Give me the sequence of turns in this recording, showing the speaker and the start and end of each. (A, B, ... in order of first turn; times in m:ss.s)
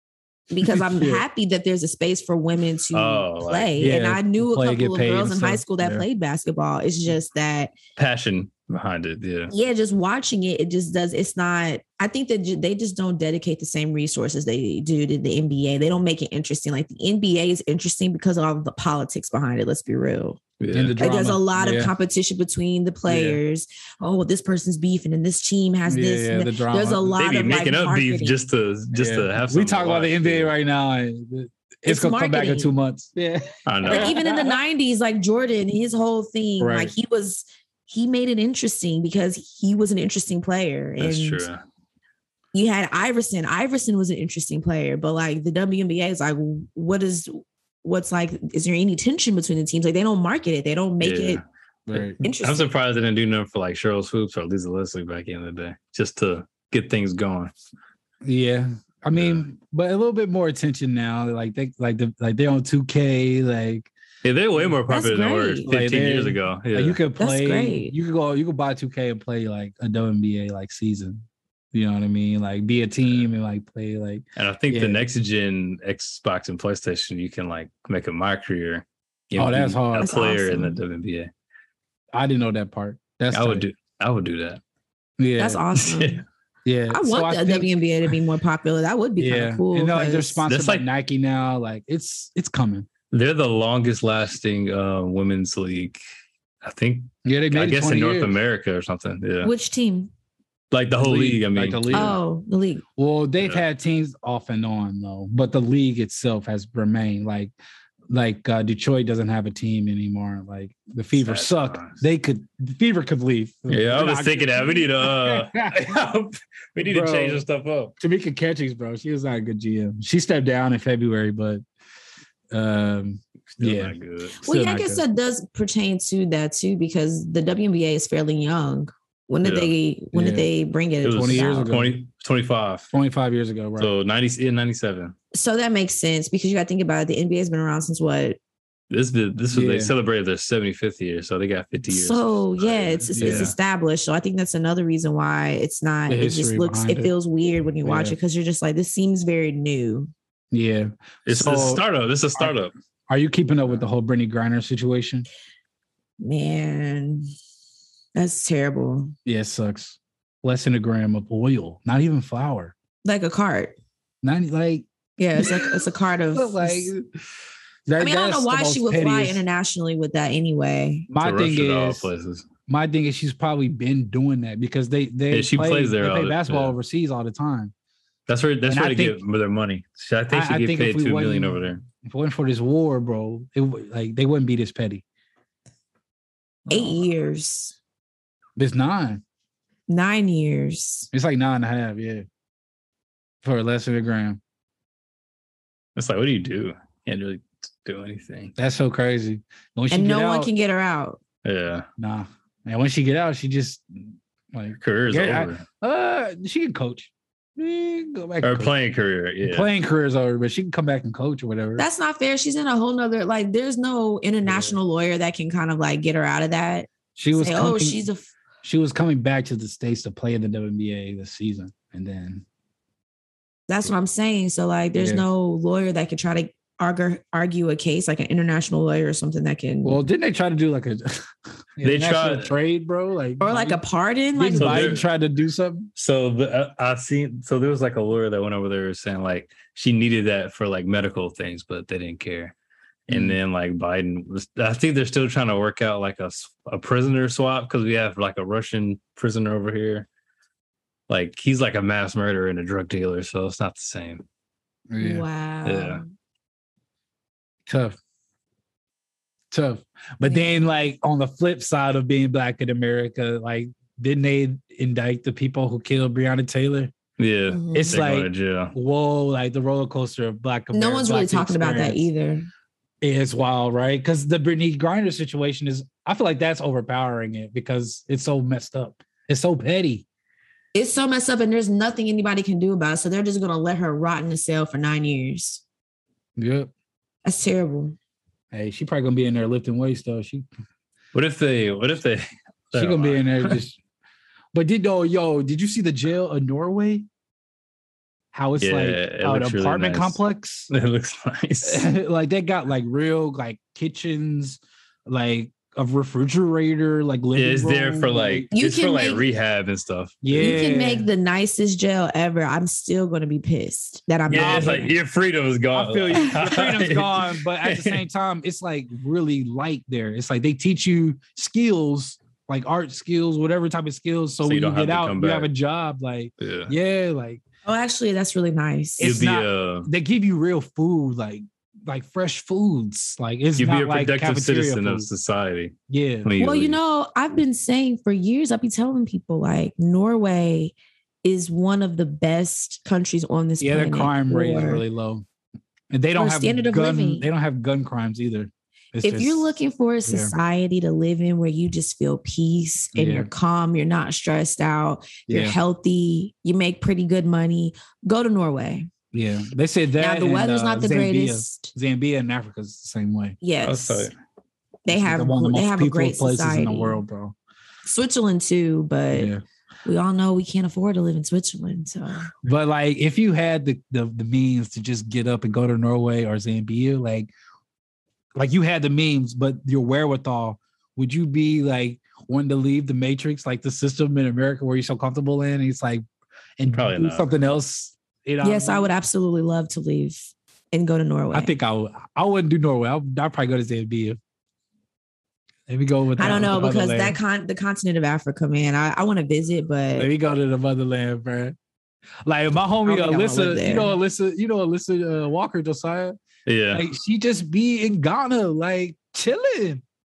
0:00.5-0:07.7 A
0:00.8-0:01.2 B
0:02.9-0:03.8 C
0:03.8-0:06.0 B
0:08.0-0:09.5 C
0:09.5-0:20.4 A
0:20.6-0:21.1 C
0:20.7-0:21.9 B
0:21.0-0:28.4 A
0:23.1-0:23.4 B
0:25.9-0:27.2 B
0:27.2-0:30.5 C
0:28.9-0:34.6 B
0:31.9-0:32.7 A
0:33.7-0:34.2 C
0:33.9-0:41.5 A
0:36.6-0:36.9 B
0:41.0-0:41.6 C
0:42.5-0:51.4 A
0:51.0-0:51.4 C
0:51.9-0:52.2 B
0:52.2-0:57.5 C
0:52.2-0:52.7 A
0:58.2-1:03.9 B
0:59.1-0:59.4 C
1:04.2-1:07.0 C
1:04.9-1:05.7 A
1:05.7-1:15.0 B
1:07.2-1:07.9 A
1:14.4-1:21.3 C
1:19.4-1:20.2 B
1:20.0-1:20.8 A
1:22.1-1:23.7 B
1:23.3-1:24.6 C
1:25.2-1:25.6 B
1:25.4-1:26.2 A
1:25.8-1:26.2 C
1:26.6-1:27.7 B
1:26.9-1:30.4 A
1:29.2-1:32.9 B
1:30.5-1:30.9 C
1:33.1-1:36.0 C
1:36.6-1:39.5 C
1:37.2-1:38.3 B
1:39.4-1:40.1 A
1:40.7-1:42.2 C
1:41.0-1:42.2 B
1:41.9-1:42.8 A
1:43.0-1:47.5 B
1:48.1-1:55.9 B
1:51.1-1:52.0 C
1:53.7-1:57.9 C
1:56.8-1:57.4 B
1:58.0-2:01.6 B
2:02.5-2:05.0 B
2:03.6-2:04.4 C
2:04.4-2:11.7 A
2:09.4-2:09.7 C
2:10.1-2:10.5 B
2:11.0-2:12.9 C
2:11.0-2:12.0 B
2:12.9-2:13.9 B
2:13.8-2:15.2 C
2:15.3-2:18.4 A
2:18.9-2:23.6 C
2:19.5-2:19.9 B
2:21.9-2:30.1 A
2:23.2-2:23.6 B
2:26.1-2:27.1 B
2:27.8-2:28.2 B
2:30.5-2:31.8 B
2:31.3-2:32.7 C
2:33.1-2:35.3 B
2:36.2-2:37.3 A
2:38.2-2:39.1 A
2:39.3-2:42.8 B
2:43.0-2:43.8 A
2:44.2-2:44.9 B
2:45.2-2:46.9 A
2:45.4-2:47.0 B
2:47.9-2:49.4 B
2:48.0-2:51.1 A
2:51.1-2:52.1 B
2:51.2-2:52.5 C
2:52.7-2:57.7 B
2:55.3-2:56.7 C
2:58.3-3:01.8 C
2:58.7-2:59.2 B
3:00.3-3:05.0 B
3:06.7-3:07.8 A
3:08.6-3:09.2 B
3:09.9-3:11.1 A
3:11.1-3:12.3 B
3:13.4-3:14.4 B
3:16.0-3:18.5 C
3:18.6-3:20.5 B
3:19.9-3:21.2 A
3:21.4-3:21.9 C
3:22.0-3:28.7 B
3:24.8-3:25.6 C
3:28.4-3:29.7 C
3:29.4-3:31.9 B
3:31.8-3:38.3 A
3:34.5-3:34.8 B
3:37.2-3:38.0 B
3:38.6-3:42.4 B
3:43.7-3:50.0 A
3:45.0-3:45.2 B
3:49.8-3:53.8 B
3:51.8-3:52.5 C
3:53.4-3:55.0 A
3:54.3-3:55.9 B
3:54.6-3:55.0 C
3:56.0-4:02.5 C
4:03.1-4:10.1 C
4:03.1-4:03.4 B
4:11.1-4:14.2 C
4:14.9-4:15.2 B
4:15.0-4:16.1 A
4:15.6-4:16.0 C
4:17.7-4:18.0 B
4:19.5-4:26.9 B
4:27.2-4:28.7 C
4:27.5-4:28.0 A
4:27.7-4:32.1 B
4:30.7-4:32.5 A
4:33.0-4:40.0 B
4:40.7-4:45.6 A
4:46.4-4:46.7 B
4:47.2-4:48.0 A
4:48.5-4:50.5 B
4:51.1-4:53.6 C
4:52.7-4:53.8 B
4:54.5-4:57.1 B
4:58.3-5:00.7 B
4:58.6-5:01.9 C
5:01.6-5:08.5 B
5:07.4-5:10.6 C
5:08.5-5:09.2 A
5:10.2-5:11.1 B
5:10.4-5:14.9 A
5:14.3-5:18.0 C
5:14.3-5:14.9 B
5:15.7-5:27.4 B
5:24.4-5:25.5 C
5:26.4-5:26.7 C
5:27.7-5:29.1 A
5:29.0-5:35.1 B
5:29.0-5:29.9 C
5:33.6-5:36.8 C
5:35.9-5:36.3 B
5:36.4-5:44.8 A
5:43.6-5:45.2 B
5:45.9-5:50.3 B
5:46.2-5:47.2 A
5:49.0-5:58.9 A
5:53.0-5:53.3 B
5:55.3-5:55.6 B
5:59.1-6:03.4 B
6:00.0-6:01.7 A
6:03.4-6:04.1 A
6:03.6-6:04.1 C
6:04.8-6:07.0 A
6:04.9-6:07.4 B
6:07.9-6:09.3 A
6:09.1-6:09.4 B
6:09.8-6:12.3 A
6:12.4-6:17.3 B
6:18.4-6:26.0 B
6:26.6-6:28.9 B
6:26.7-6:27.3 C
6:28.4-6:31.5 A
6:31.3-6:34.2 B
6:35.7-6:37.2 B
6:36.2-6:40.1 A
6:40.0-6:41.6 B
6:42.2-6:46.2 B
6:42.9-6:43.9 A
6:46.5-6:46.8 C
6:46.7-6:49.8 B